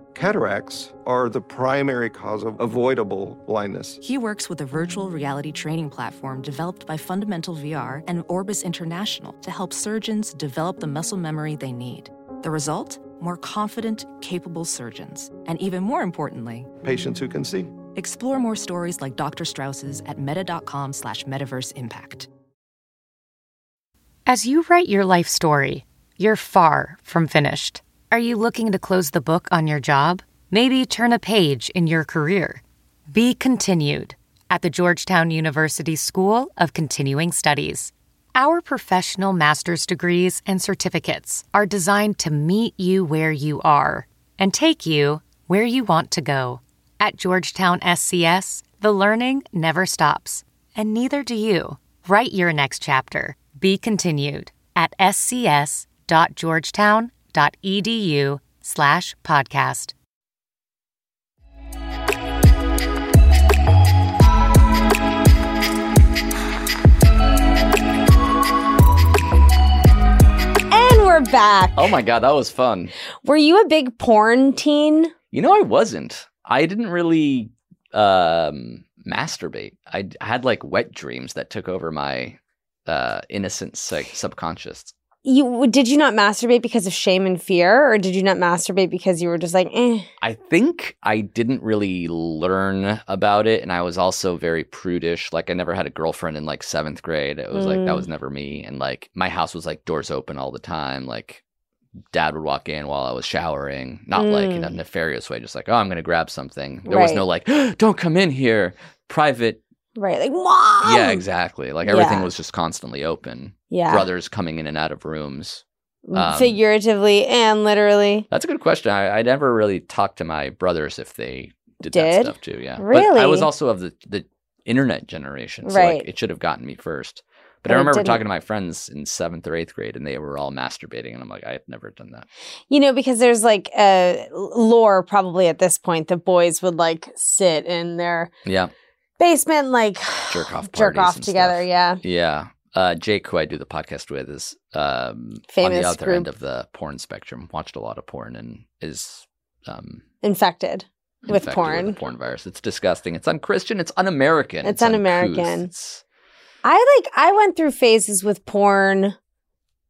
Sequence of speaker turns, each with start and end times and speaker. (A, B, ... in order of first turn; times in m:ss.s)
0:00.1-0:04.0 A
0:04.0-0:16.7 B
0:16.8-0:17.7 A
0:18.0-0:22.3 B
0:24.3-0:59.9 C
1:10.7-1:11.9 D
1:11.8-1:12.9 E
1:13.2-1:15.1 D
1:15.3-1:24.9 E
1:25.2-1:30.1 D
1:30.2-1:41.4 E
1:37.5-1:38.1 D
1:42.1-1:49.6 E
1:44.1-1:44.7 D
1:46.9-1:47.2 D
1:50.0-1:51.2 D
1:50.8-1:56.6 E
1:51.9-1:52.3 D
1:53.7-1:54.1 D
1:56.1-1:58.3 D
1:58.3-2:12.3 E
2:01.9-2:03.5 D
2:05.6-2:06.1 D
2:07.7-2:08.2 D
2:12.7-2:18.3 D
2:18.4-2:18.7 E
2:19.2-2:22.0 D
2:20.3-2:30.0 E
2:25.5-2:26.3 D
2:30.2-2:32.0 D
2:31.3-2:36.0 E
2:34.6-2:35.7 D
2:36.6-2:39.1 D